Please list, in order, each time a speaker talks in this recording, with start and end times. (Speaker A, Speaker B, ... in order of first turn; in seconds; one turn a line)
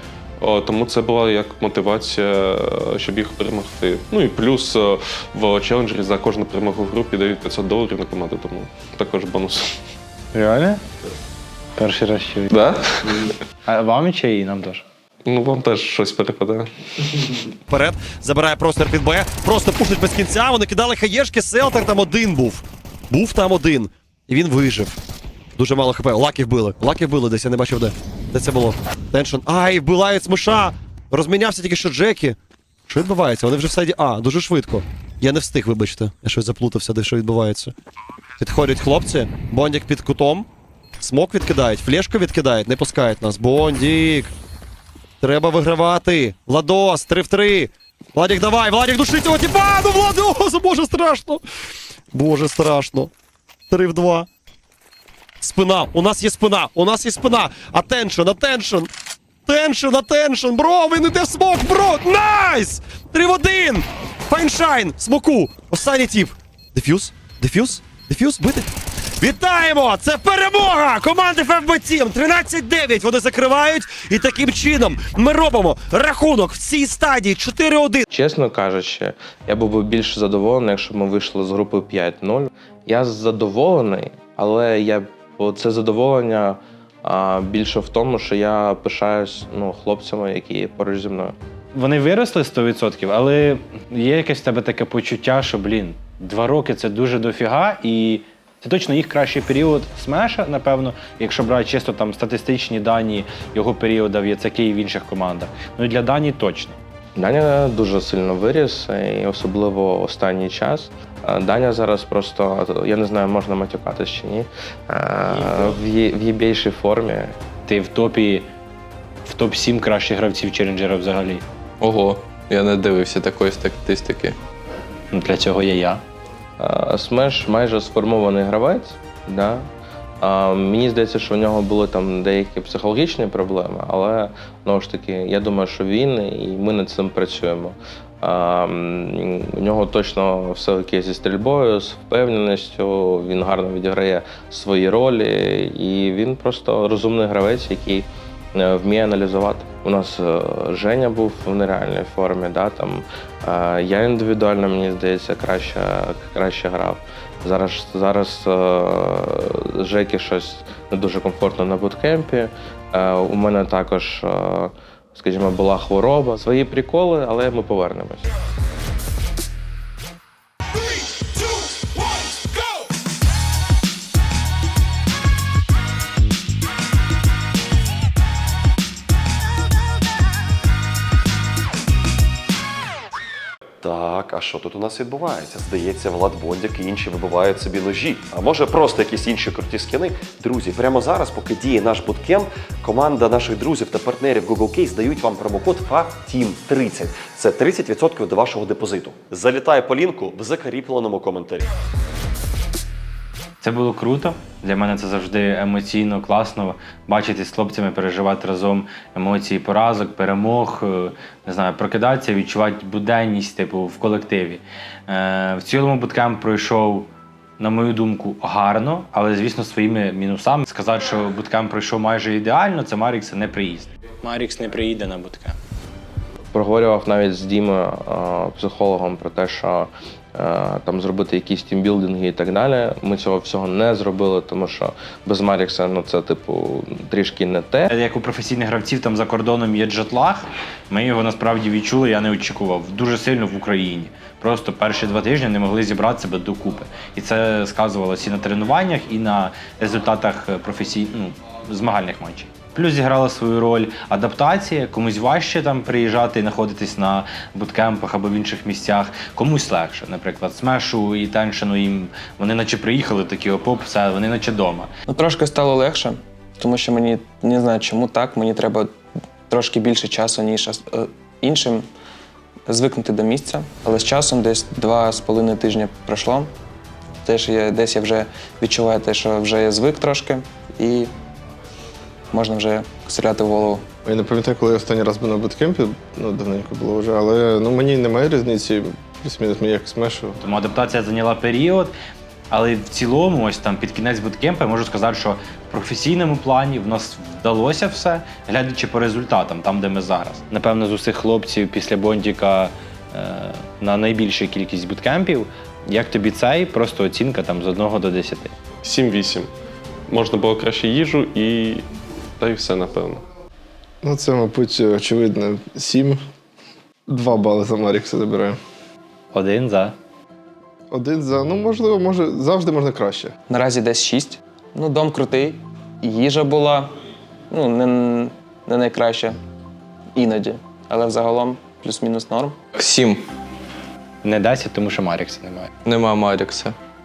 Speaker A: 0.4-9.7
Speaker B: 10.3-10.8
Speaker B: 11.8-12.5
Speaker A: 12.5-13.3
Speaker B: 13.7-14.8
Speaker A: 15.2-17.4
Speaker C: 17.7-25.0
Speaker C: 25.6-32.4
Speaker C: 32.9-37.7
Speaker C: 38.4-40.5
Speaker C: 41.0-44.3
Speaker C: 45.2-51.4
Speaker C: 52.1-53.1
Speaker C: 53.7-54.3
Speaker C: 55.4-58.9
Speaker C: 59.5-78.0
Speaker D: 78.1-91.3
Speaker B: 91.8-106.8
Speaker D: 107.2-117.4
Speaker B: 117.7-118.5
Speaker B: 119.2-121.5
Speaker E: 121.8-124.4
Speaker B: 125.1-126.0
Speaker D: 126.6-129.7
Speaker D: 130.2-168.3
Speaker C: 183.8-201.7
Speaker B: 203.6-217.1
Speaker B: 217.6-225.6
Speaker D: 226.5-237.9
Speaker B: 237.9-264.9
Speaker F: 265.1-268.9
Speaker F: 269.5-271.9
Speaker F: 272.7-276.5
Speaker F: 277.2-281.1
Speaker F: 282.3-283.9
Speaker G: 284.1-290.4
Speaker B: 290.4-291.9
Speaker B: 292.5-308.5
Speaker A: 308.8-309.5
Speaker A: 310.1-311.9
Speaker A: 312.4-313.2
Speaker G: 314.0-316.2
Speaker G: 317.1-318.6
Speaker B: 319.3-320.0
Speaker G: 320.9-323.3
Speaker F: 323.5-326.9
Speaker F: 327.5-329.4
Speaker F: 330.1-332.6
Speaker E: 332.8-333.3
Speaker B: 334.2-335.7
Speaker E: 335.8-336.8